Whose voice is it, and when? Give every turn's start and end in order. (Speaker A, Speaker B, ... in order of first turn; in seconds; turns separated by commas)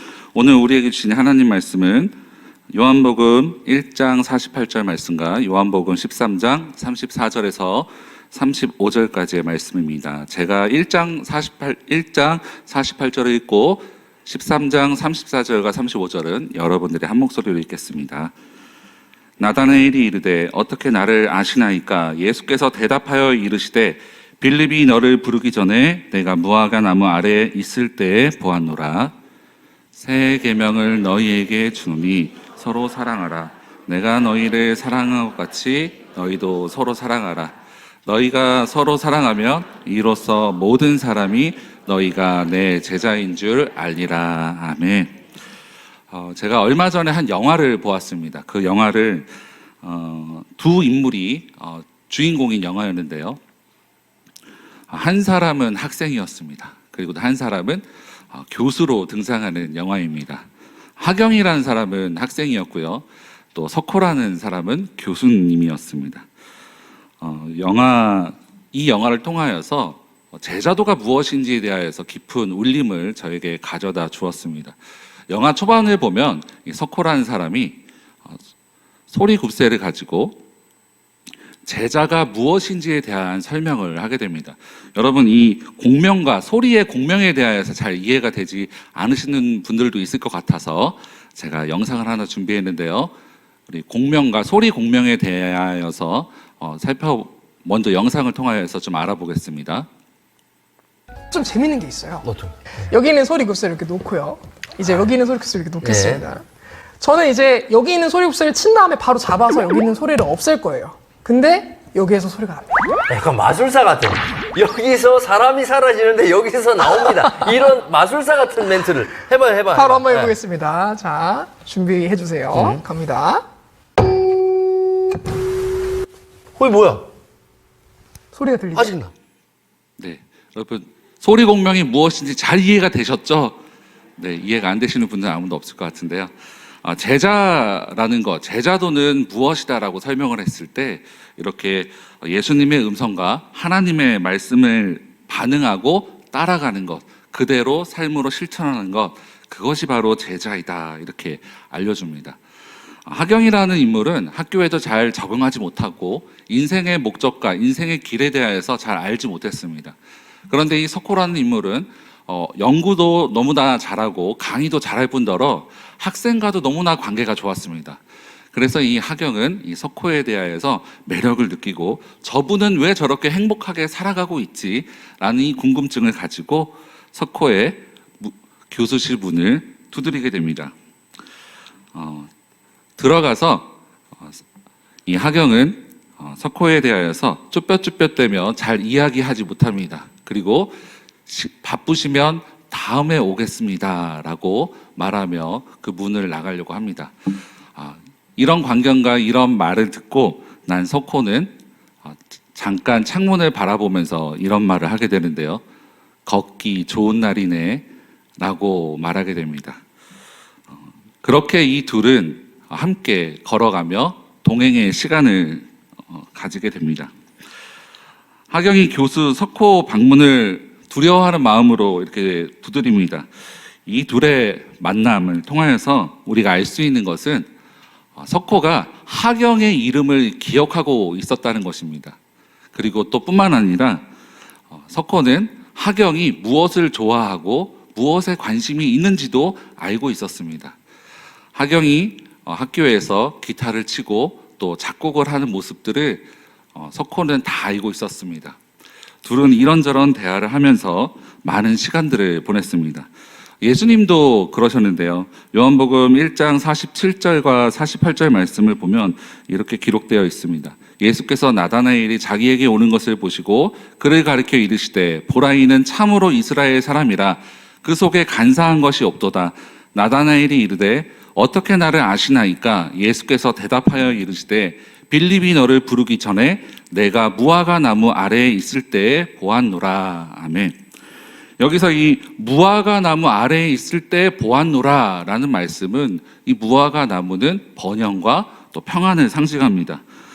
Speaker A: 0.3-2.1, Speaker A: 2.7-18.3, Speaker A: 19.4-29.1, Speaker A: 29.9-37.5, Speaker A: 38.1-45.1, Speaker A: 46.1-49.3, Speaker A: 49.8-53.4, Speaker A: 54.9-60.5, Speaker A: 61.0-66.3, Speaker A: 67.2-74.8, Speaker A: 75.3-78.4, Speaker A: 79.1-80.4, Speaker A: 81.7-93.1, Speaker A: 93.7-99.9, Speaker B: 101.3-102.3, Speaker C: 102.2-102.7, Speaker B: 102.9-106.5, Speaker C: 105.8-106.2, Speaker B: 107.0-112.8, Speaker C: 113.1-120.4, Speaker B: 119.7-123.4, Speaker C: 122.5-122.8, Speaker C: 126.6-127.1, Speaker B: 128.3-128.9, Speaker C: 128.7-129.1, Speaker A: 130.0-133.6, Speaker A: 134.2-136.3, Speaker A: 136.8-152.4, Speaker A: 153.1-160.0, Speaker A: 160.5-168.0, Speaker A: 168.5-180.8, Speaker A: 181.9-182.3, Speaker A: 183.0-184.4, Speaker A: 185.1-201.5, Speaker A: 202.0-205.6, Speaker A: 206.3-207.9, Speaker A: 208.4-209.8, Speaker A: 211.2-217.1, Speaker A: 218.5-223.3, Speaker A: 223.9-227.5, Speaker A: 228.2-232.2, Speaker A: 232.7-234.1, Speaker A: 234.7-240.8, Speaker A: 241.6-248.6, Speaker A: 249.2-253.1, Speaker A: 253.6-280.8, Speaker A: 281.6-290.0